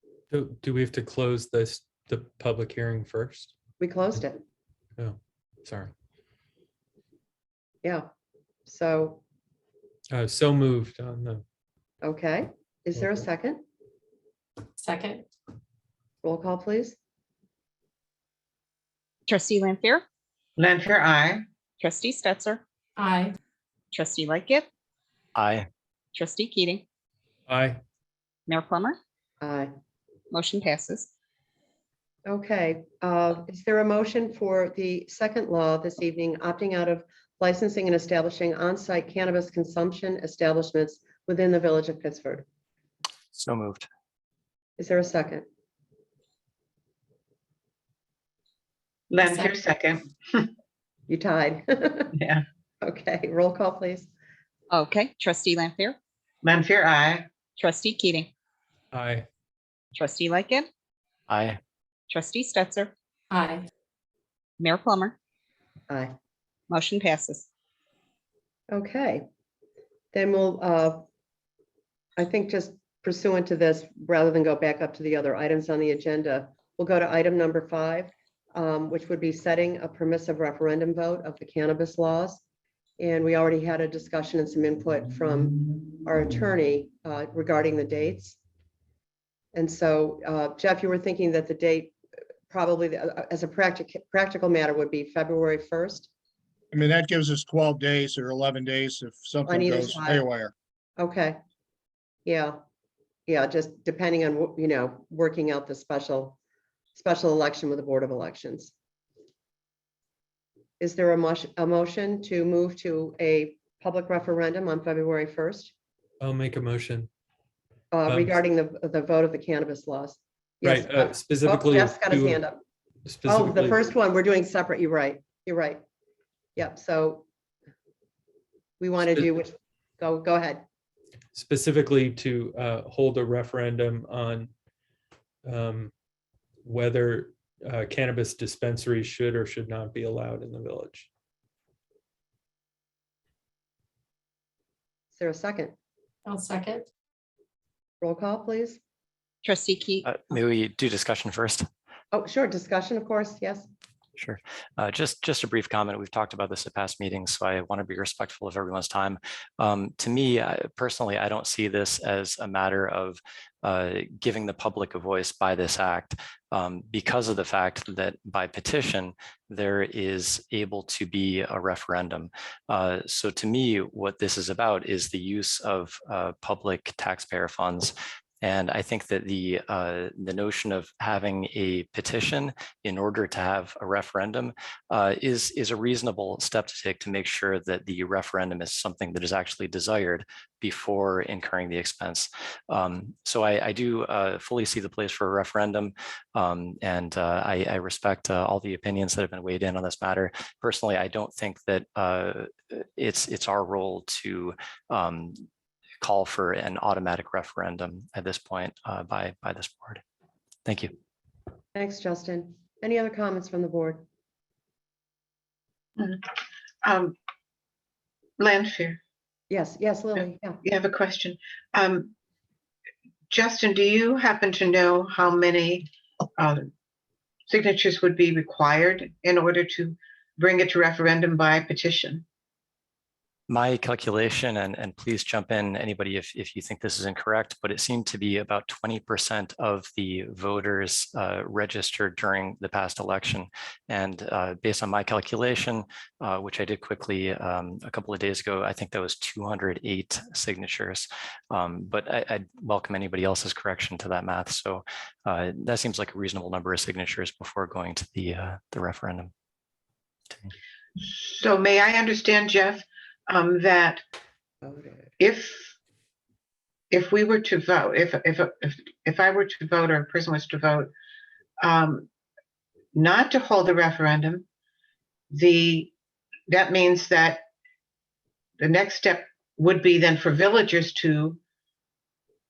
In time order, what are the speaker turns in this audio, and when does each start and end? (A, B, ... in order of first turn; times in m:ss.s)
0:00.3-0:03.5 A
0:03.8-0:04.4 B
0:05.0-0:05.9 A
0:07.8-0:08.1 B
0:08.7-0:09.2 B
0:10.1-0:11.4 A
0:12.0-0:13.6 B
0:13.0-0:13.2 A
0:14.8-0:15.2 C
0:16.2-0:17.0 B
0:19.3-0:20.0 D
0:20.6-0:21.4 E
0:21.8-0:22.6 D
0:23.0-0:23.4 C
0:23.9-0:24.7 D
0:25.4-0:25.7 F
0:26.2-0:26.8 D
0:27.5-0:27.8 A
0:28.5-0:29.0 D
0:29.4-0:29.7 B
0:30.3-0:31.1 D
0:32.3-0:42.5 B
0:43.3-0:43.9 F
0:44.8-0:45.4 B
0:49.1-0:50.5 E
0:49.2-0:49.5 C
0:51.1-0:52.1 B
0:52.2-0:52.4 E
0:52.8-0:54.1 B
0:54.7-0:56.0 D
0:56.4-0:57.3 E
0:57.6-0:58.3 D
0:58.9-0:59.3 A
1:00.0-1:00.7 D
1:01.3-1:01.6 F
1:02.1-1:02.9 D
1:03.3-1:03.7 C
1:04.6-1:05.2 D
1:05.9-1:06.1 B
1:06.7-1:07.5 D
1:08.7-1:09.2 B
1:10.1-1:11.1 B
1:12.2-1:22.4 B
1:23.0-1:28.4 B
1:29.5-1:31.9 B
1:32.5-1:36.1 B
1:36.7-1:40.5 G
1:39.5-1:40.2 B
1:41.0-1:41.4 B
1:42.2-1:42.6 B
1:43.3-1:46.4 B
1:46.9-1:48.7 B
1:50.8-1:55.7 B
1:56.2-1:57.1 A
1:57.9-2:02.6 B
1:58.1-1:58.4 A
2:00.6-2:02.4 A
2:03.1-2:03.8 A
2:03.3-2:05.8 B
2:06.6-2:07.3 B
2:08.8-2:10.6 B
2:11.3-2:14.5 A
2:15.4-2:15.9 A
2:16.6-2:21.1 A
2:25.1-2:25.7 B
2:26.3-2:26.9 C
2:28.0-2:28.8 B
2:29.4-2:30.0 D
2:30.0-2:31.6 F
2:32.1-2:33.7 B
2:34.2-3:25.4 F
3:26.0-3:30.0 F
3:30.6-3:30.9 F
3:31.8-3:34.0 B
3:36.0-3:36.2 E
3:36.8-3:37.1 E
3:38.4-3:39.0 E
3:39.5-3:40.6 B
3:40.6-3:42.1 E
3:43.3-3:46.7 E
3:47.5-3:52.2 E
3:53.5-4:19.3 F
4:21.0-4:24.0 E
4:24.6-4:25.1 B
4:25.2-4:25.7 E
4:26.9-4:30.9 E
4:31.6-4:32.1 E
4:32.9-4:34.4 E
4:35.3-4:35.9 E
4:36.5-4:37.4 E
4:38.6-4:41.4 E